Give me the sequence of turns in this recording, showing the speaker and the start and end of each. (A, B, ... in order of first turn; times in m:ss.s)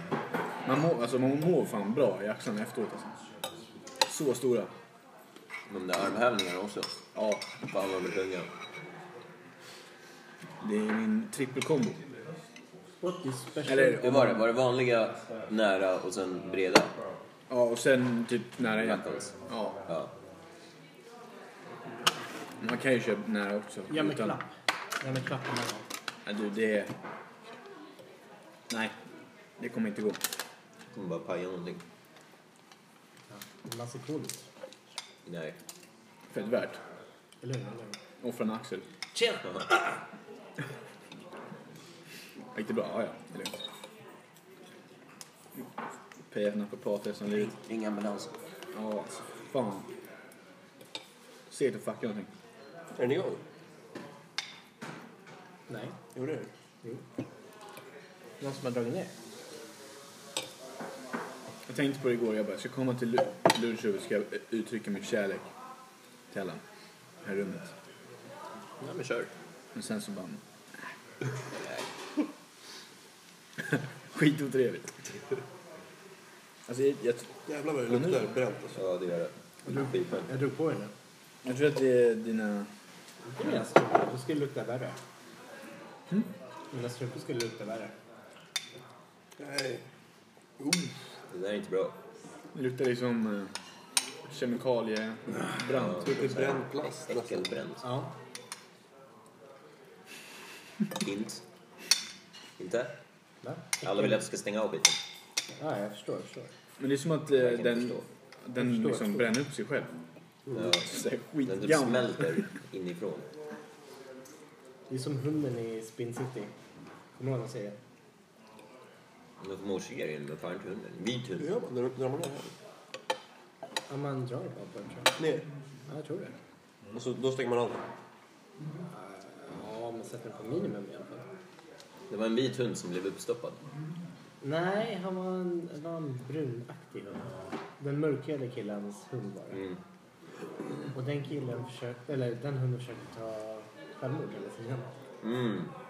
0:00.6-0:03.2 A
0:04.1-0:04.7 A
0:05.7-0:06.9 B
0:07.1-0:07.5 A
0:07.6-0:08.5 B
0:10.6-0:12.0 A
0:13.0-0:14.3 C
0:13.6-0:14.4 A
0:14.0-0:17.0 B
0:17.5-0:19.8 A
0:18.7-0:19.3 B
0:19.9-0:20.1 B
0:22.6-0:24.4 A
0:23.9-0:25.9 C
0:26.2-0:26.9 A
0:28.7-0:28.9 A
0:29.6-0:30.2 A
0:30.9-0:31.8 B
0:33.3-0:34.5 C
0:35.2-0:35.5 B
0:36.3-0:36.8 A
0:37.4-0:38.0 C
0:38.2-0:38.8 A
0:39.1-0:39.5 C
0:42.5-0:43.6 A
0:46.3-0:47.5 A
0:47.3-0:48.3 B
0:48.7-0:49.9 A
0:51.5-0:52.3 A
0:53.0-0:53.4 D
0:55.7-0:56.0 C
0:56.1-0:56.5 D
0:58.4-0:59.1 C
1:01.6-1:05.5 A
1:06.3-1:06.6 A
1:07.2-1:07.7 A
1:08.8-1:09.3 B
1:09.7-1:10.9 A
1:13.6-1:15.0 A
1:16.7-1:17.3 A
1:17.4-1:18.8 D
1:17.9-1:18.3 A
1:18.8-1:20.3 B
1:19.7-1:20.9 C
1:21.4-1:22.7 A
1:23.2-1:25.0 C
1:26.7-1:27.9 C
1:29.4-1:29.8 D
1:30.6-1:30.9 D
1:31.3-1:32.0 B
1:32.5-1:33.5 A
1:34.3-1:36.3 A
1:35.7-1:37.8 B
1:36.0-1:37.6 D
1:37.8-1:38.1 C
1:40.9-1:41.4 B
1:42.6-1:42.9 B
1:43.4-1:44.2 C
1:43.8-1:45.0 B
1:45.6-1:46.5 C
1:46.8-1:49.9 A
1:47.4-1:48.1 B
1:48.6-1:49.3 C
1:50.5-1:50.9 B
1:50.7-1:52.4 A
1:51.4-1:53.2 B
1:54.9-1:56.5 C
1:57.2-1:57.8 C
1:59.4-2:01.5 B
2:01.4-2:02.5 D
2:03.9-2:05.1 C
2:05.2-2:05.4 D
2:05.9-2:06.3 C
2:06.9-2:07.8 D
2:08.9-2:11.2 C
2:12.1-2:13.6 B
2:14.4-2:19.6 C
2:19.5-2:19.8 B
2:20.9-2:24.9 C
2:25.2-2:25.7 B